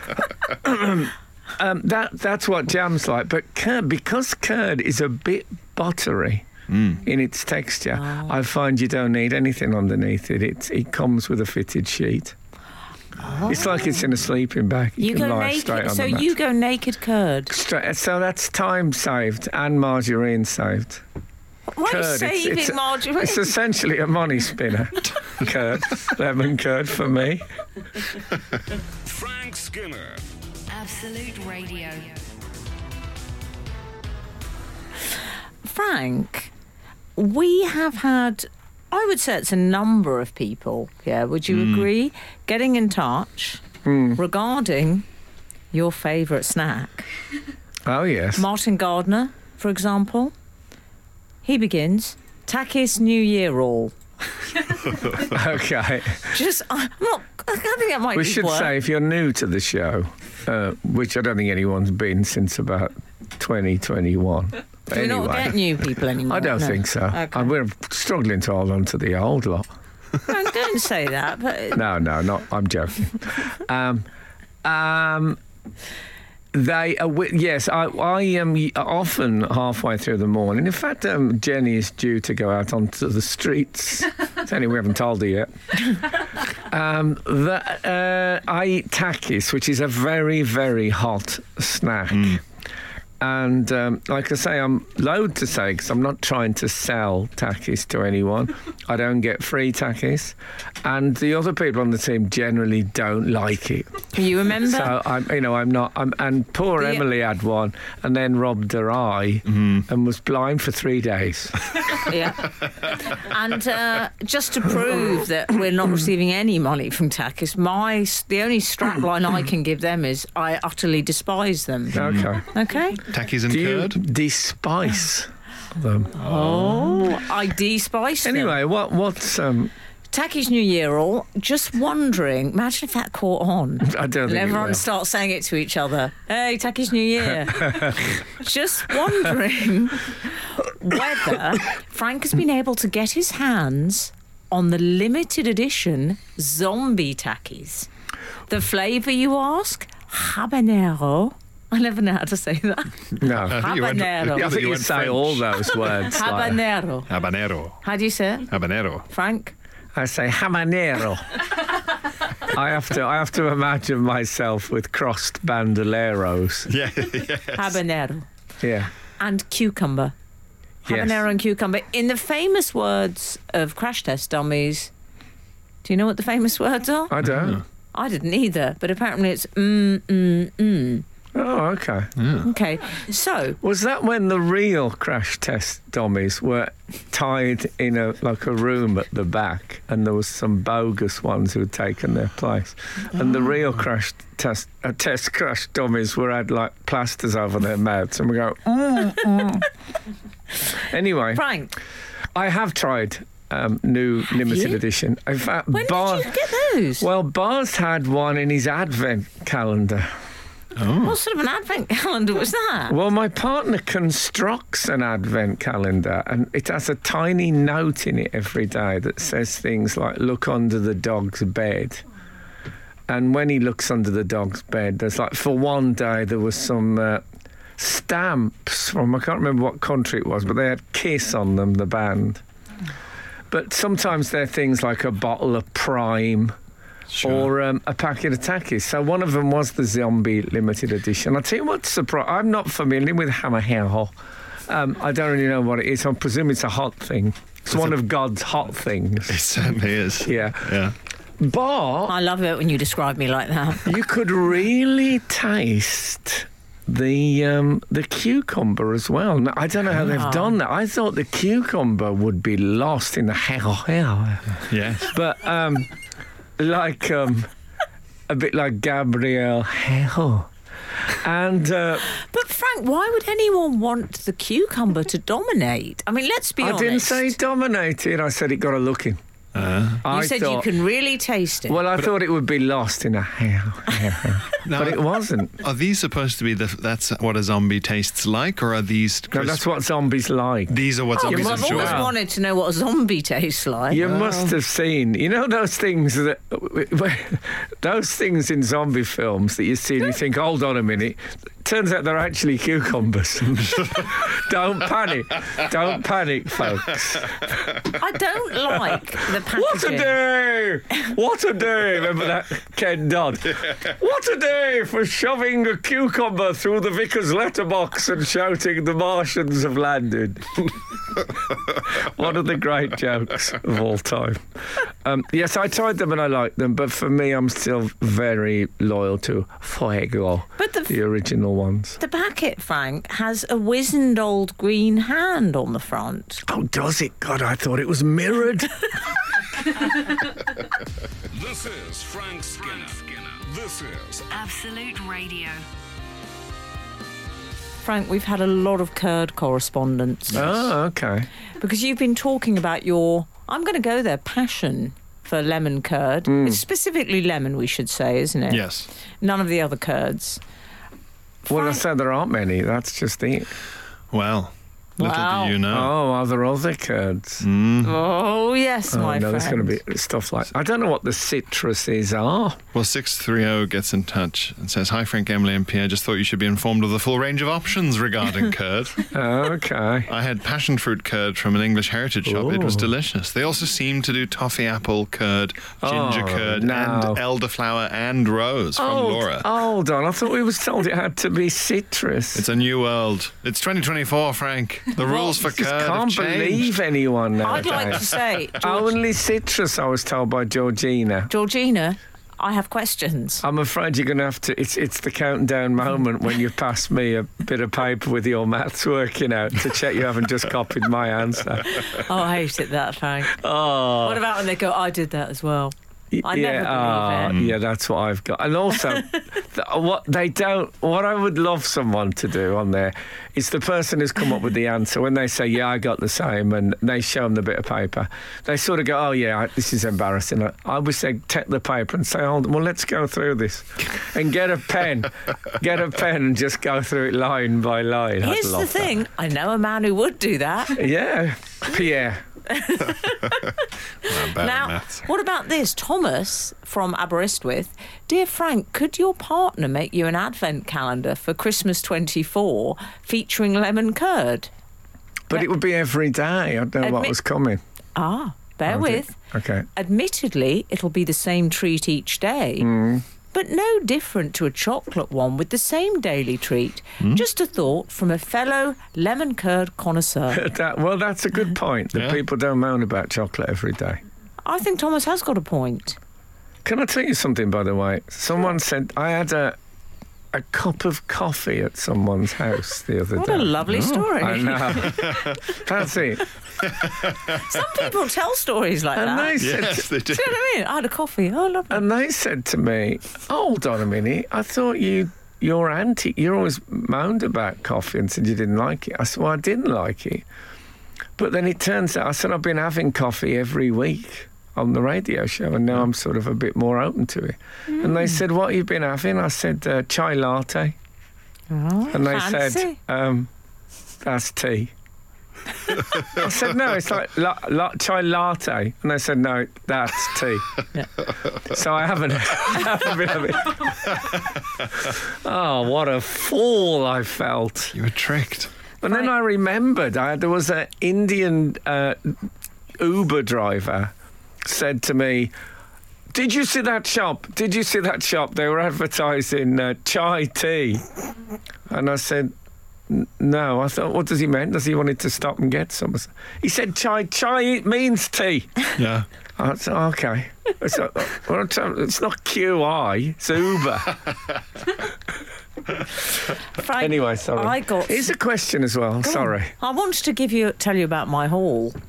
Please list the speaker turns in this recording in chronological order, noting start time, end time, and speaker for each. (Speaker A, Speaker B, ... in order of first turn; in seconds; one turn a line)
Speaker A: 0.4-6.5
Speaker B: 6.7-7.0
Speaker A: 7.0-12.3
Speaker C: 7.9-8.3
Speaker C: 13.2-14.1
Speaker A: 13.4-16.3
Speaker C: 15.0-17.5
Speaker A: 17.5-21.0
Speaker C: 21.7-23.5
Speaker A: 21.9-27.4
Speaker D: 29.0-30.2
Speaker E: 30.7-32.2
Speaker C: 35.6-36.5
Speaker C: 37.1-43.6
Speaker B: 41.5-41.9
Speaker A: 43.8-44.2
Speaker C: 44.1-45.0
Speaker C: 45.7-47.1
Speaker A: 47.9-48.4
Speaker C: 48.4-50.3
Speaker C: 51.4-53.9
Speaker A: 55.2-56.3
Speaker C: 56.3-58.7
Speaker A: 58.1-65.7
Speaker C: 64.9-67.5
Speaker A: 66.2-69.7
Speaker C: 70.2-71.8
Speaker A: 71.7-74.0
Speaker A: 74.6-75.4
Speaker A: 76.5-92.4
Speaker B: 92.1-92.4
Speaker A: 93.2-111.6
Speaker C: 104.1-105.0
Speaker C: 106.8-107.0
Speaker B: 109.5-109.8
Speaker C: 112.0-123.0
Speaker A: 121.9-122.5
Speaker B: 121.9-122.3
Speaker B: 123.0-124.0
Speaker A: 123.5-126.2
Speaker C: 126.2-128.6
Speaker B: 126.2-127.1
Speaker A: 128.2-129.7
Speaker C: 130.1-147.9
Speaker A: 133.8-134.8
Speaker C: 148.5-154.5
Speaker A: 153.2-153.7
Speaker B: 153.2-155.9
Speaker A: 154.3-156.6
Speaker C: 155.9-157.1
Speaker B: 157.1-157.8
Speaker C: 157.8-158.5
Speaker B: 158.5-159.1
Speaker C: 159.1-159.5
Speaker A: 159.9-161.4
Speaker A: 162.4-166.7
Speaker B: 166.7-167.8
Speaker C: 167.5-168.3
Speaker A: 168.6-168.9
Speaker C: 169.2-170.1
Speaker A: 170.8-171.2
Speaker C: 170.8-174.9
Speaker C: 175.8-177.2
Speaker A: 177.1-177.6
Speaker B: 177.2-177.6
Speaker C: 177.9-181.0
Speaker A: 181.3-182.1
Speaker B: 182.2-182.5
Speaker C: 182.4-183.6
Speaker A: 183.6-199.7
Speaker A: 200.7-201.4
Speaker C: 201.3-201.7
Speaker A: 202.3-206.3
Speaker C: 204.4-204.8
Speaker C: 205.7-207.1
Speaker A: 207.0-210.1
Speaker B: 210.8-211.2
Speaker C: 211.0-213.0
Speaker A: 212.9-222.0
Speaker A: 223.1-227.2
Speaker A: 227.8-232.4
Speaker A: 233.5-236.5
Speaker B: 237.1-237.5
Speaker A: 237.2-244.1
Speaker A: 244.7-249.4
Speaker B: 249.3-250.9
Speaker A: 250.2-250.8
Speaker A: 251.4-252.1
Speaker C: 252.1-253.9
Speaker A: 253.8-265.9
Speaker C: 260.1-260.6
Speaker B: 264.6-265.1
Speaker A: 266.6-267.5
Speaker A: 268.3-270.5
Speaker A: 271.1-272.1
Speaker C: 272.1-277.4
Speaker A: 276.6-279.2
Speaker B: 279.5-280.0
Speaker A: 280.0-280.7
Speaker C: 280.0-281.8
Speaker A: 281.7-285.6
Speaker B: 284.6-289.6
Speaker A: 289.3-292.1
Speaker B: 290.7-292.1
Speaker C: 291.1-294.5
Speaker A: 293.9-307.7
Speaker C: 307.9-310.2
Speaker A: 309.3-332.0
Speaker C: 330.6-330.9
Speaker C: 332.0-336.4
Speaker A: 336.4-338.9
Speaker D: 341.3-344.2
Speaker E: 344.3-345.6
Speaker C: 347.8-350.5
Speaker A: 350.3-351.3
Speaker B: 350.3-350.6
Speaker C: 351.6-358.7
Speaker A: 356.2-356.6
Speaker B: 358.5-358.9
Speaker C: 359.2-360.4
Speaker C: 361.4-361.8
Speaker A: 361.5-363.5
Speaker B: 364.1-365.9
Speaker C: 365.0-365.6
Speaker A: 365.7-367.4
Speaker B: 367.4-367.9
Speaker C: 367.8-369.8
Speaker A: 368.9-372.6
Speaker B: 372.7-379.1
Speaker A: 379.1-380.1
Speaker B: 380.1-389.5
Speaker A: 382.2-382.9
Speaker A: 385.8-387.2
Speaker A: 388.8-392.4
Speaker B: 392.3-396.8
Speaker A: 395.3-398.0
Speaker C: 397.4-398.9
Speaker B: 397.6-398.0
Speaker A: 398.6-401.3
Speaker C: 401.3-403.4
Speaker A: 403.4-412.0
Speaker C: 411.8-417.4
Speaker A: 413.3-414.2
Speaker A: 416.1-439.0
Speaker B: 417.3-417.6
Speaker C: 438.2-440.9
Speaker A: 440.7-442.2
Speaker C: 442.4-454.5
Speaker B: 444.0-445.1
Speaker A: 455.3-457.6
Speaker C: 456.8-457.2
Speaker C: 457.9-459.1
Speaker A: 458.7-459.7
Speaker C: 459.8-462.7
Speaker A: 462.6-463.0
Speaker C: 463.3-470.4
Speaker A: 470.3-474.0
Speaker B: 471.9-472.2
Speaker C: 474.4-476.0
Speaker A: 476.6-479.6
Speaker A: 480.3-483.6
Speaker C: 483.1-485.3
Speaker B: 483.6-484.1
Speaker A: 484.1-486.3
Speaker B: 484.8-485.4
Speaker B: 486.6-487.4
Speaker C: 487.2-491.8
Speaker A: 488.9-489.9
Speaker B: 489.4-490.4
Speaker A: 491.7-500.2
Speaker A: 501.2-510.8
Speaker C: 507.7-508.1
Speaker C: 511.5-512.8
Speaker A: 511.9-513.3
Speaker A: 514.0-514.7
Speaker A: 516.0-520.5
Speaker A: 521.4-524.0
Speaker A: 524.8-527.7
Speaker B: 527.7-528.5
Speaker A: 528.8-532.2
Speaker A: 532.8-533.9
Speaker A: 534.4-535.3
Speaker A: 536.1-540.9
Speaker A: 541.7-542.3
Speaker A: 542.9-548.7
Speaker B: 548.8-549.0
Speaker A: 549.4-554.0
Speaker C: 556.6-558.1
Speaker A: 556.8-559.5
Speaker C: 559.0-561.8